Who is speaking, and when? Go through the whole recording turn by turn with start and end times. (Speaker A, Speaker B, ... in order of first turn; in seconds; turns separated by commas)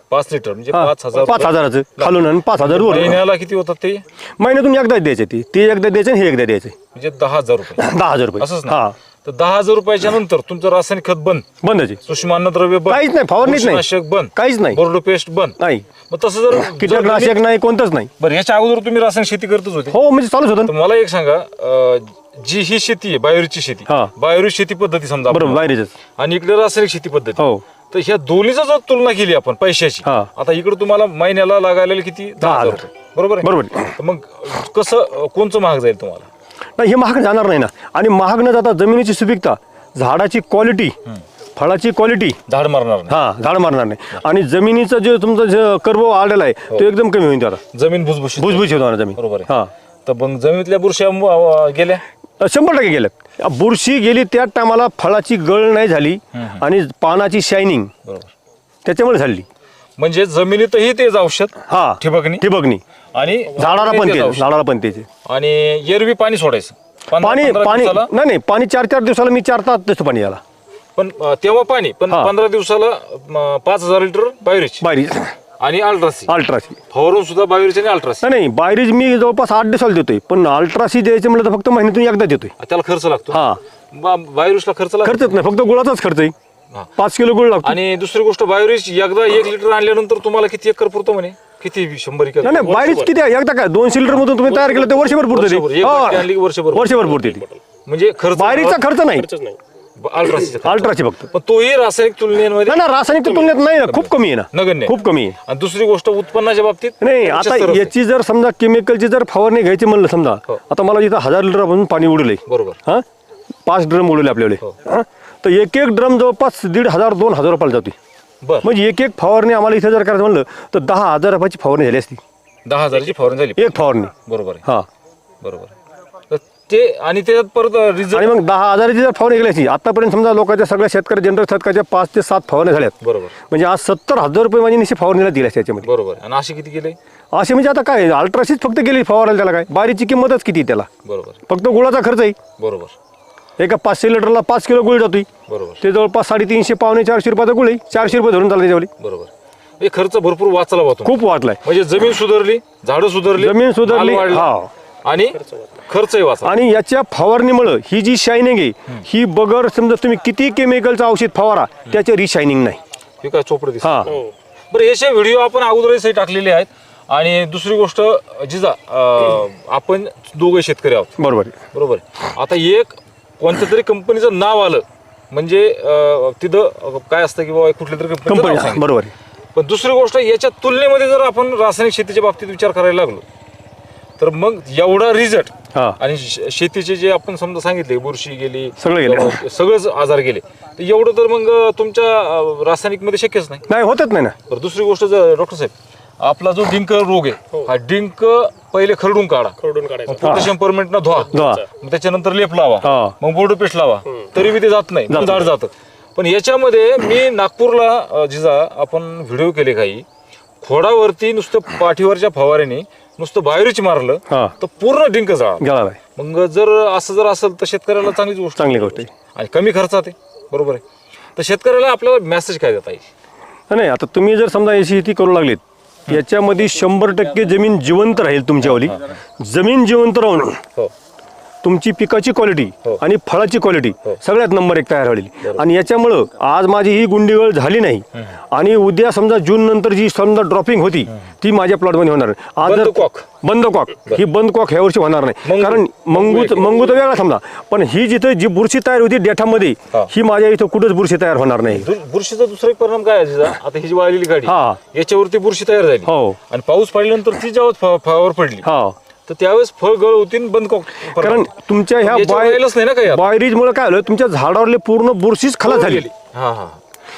Speaker A: 0.1-4.0, Speaker B: 0.7-3.2, Speaker B: 4.4-6.7, Speaker A: 6.9-7.8, Speaker B: 7.8-8.9, Speaker A: 8.4-11.4, Speaker B: 11.6-12.0, Speaker A: 12.0-17.4, Speaker B: 12.9-14.8, Speaker B: 15.6-15.8, Speaker B: 16.6-18.1, Speaker A: 18.2-20.0, Speaker B: 19.9-20.7, Speaker A: 20.6-25.6, Speaker B: 23.9-24.1, Speaker B: 25.3-25.9, Speaker A: 26.1-36.3, Speaker B: 27.4-27.6, Speaker B: 32.4-32.8, Speaker B: 33.4-34.0, Speaker B: 36.8-41.0, Speaker B: 41.5-42.4, Speaker A: 42.5-43.2, Speaker B: 43.1-47.6, Speaker A: 47.7-49.5, Speaker B: 48.4-49.7, Speaker A: 50.0-52.0, Speaker B: 52.4-57.9, Speaker A: 56.3-56.6, Speaker A: 58.0-58.3, Speaker B: 58.8-59.5, Speaker A: 60.0-62.4, Speaker B: 61.7-62.8, Speaker A: 63.1-64.4, Speaker B: 63.5-65.1, Speaker A: 65.2-68.1, Speaker B: 67.2-70.4, Speaker A: 71.0-74.8, Speaker B: 74.8-75.3, Speaker A: 75.6-76.3, Speaker B: 76.3-76.8, Speaker A: 76.9-78.3, Speaker B: 78.2-82.5, Speaker A: 82.6-85.3, Speaker B: 83.3-83.6, Speaker B: 85.0-86.3, Speaker B: 87.0-87.8, Speaker A: 87.6-92.8, Speaker B: 92.4-97.4, Speaker C: 92.5-93.1, Speaker C: 94.5-95.1, Speaker A: 95.2-97.2, Speaker C: 97.0-97.6, Speaker A: 97.8-98.8, Speaker B: 98.3-99.3, Speaker C: 99.1-99.6, Speaker A: 100.0-102.8, Speaker B: 100.6-101.3, Speaker B: 102.7-105.4, Speaker C: 103.2-103.5, Speaker A: 103.9-107.9, Speaker B: 107.0-113.0, Speaker A: 112.5-112.8, Speaker B: 113.7-117.9, Speaker A: 118.4-118.7, Speaker B: 118.6-122.2, Speaker A: 122.6-124.6, Speaker B: 123.5-124.1, Speaker A: 125.4-125.7, Speaker A: 126.3-128.3, Speaker B: 128.1-132.9, Speaker A: 133.0-133.3, Speaker B: 133.5-135.9, Speaker A: 135.8-137.0, Speaker B: 137.3-140.9, Speaker A: 141.0-141.4, Speaker B: 141.5-142.4, Speaker A: 142.6-142.9, Speaker B: 143.6-145.3, Speaker A: 145.5-145.8, Speaker B: 145.8-148.9, Speaker A: 149.0-154.5, Speaker B: 151.0-151.6, Speaker B: 153.3-154.7, Speaker A: 155.0-156.5, Speaker C: 155.4-155.7, Speaker B: 156.4-162.8, Speaker A: 163.2-171.1, Speaker B: 163.8-164.1, Speaker C: 164.0-164.3, Speaker B: 171.2-171.6, Speaker A: 171.7-178.8, Speaker B: 178.3-179.1, Speaker A: 179.5-183.2, Speaker A: 184.2-193.7, Speaker B: 185.7-186.0, Speaker B: 188.8-189.4, Speaker B: 193.7-194.3, Speaker A: 194.5-210.1, Speaker C: 199.6-200.3, Speaker B: 200.2-200.5, Speaker C: 201.3-201.6, Speaker B: 201.3-201.6, Speaker B: 202.8-203.2, Speaker B: 205.1-205.5, Speaker A: 210.6-220.8, Speaker B: 214.3-214.5, Speaker B: 215.6-216.0, Speaker B: 218.6-219.1, Speaker A: 221.3-223.1, Speaker B: 223.7-230.6, Speaker A: 228.6-229.1, Speaker B: 231.6-251.9, Speaker A: 242.6-243.3, Speaker A: 245.4-246.9, Speaker A: 251.7-258.7, Speaker B: 254.4-254.8, Speaker B: 256.1-256.4, Speaker B: 258.6-258.9, Speaker A: 259.3-263.3, Speaker B: 261.1-266.1, Speaker A: 265.6-266.8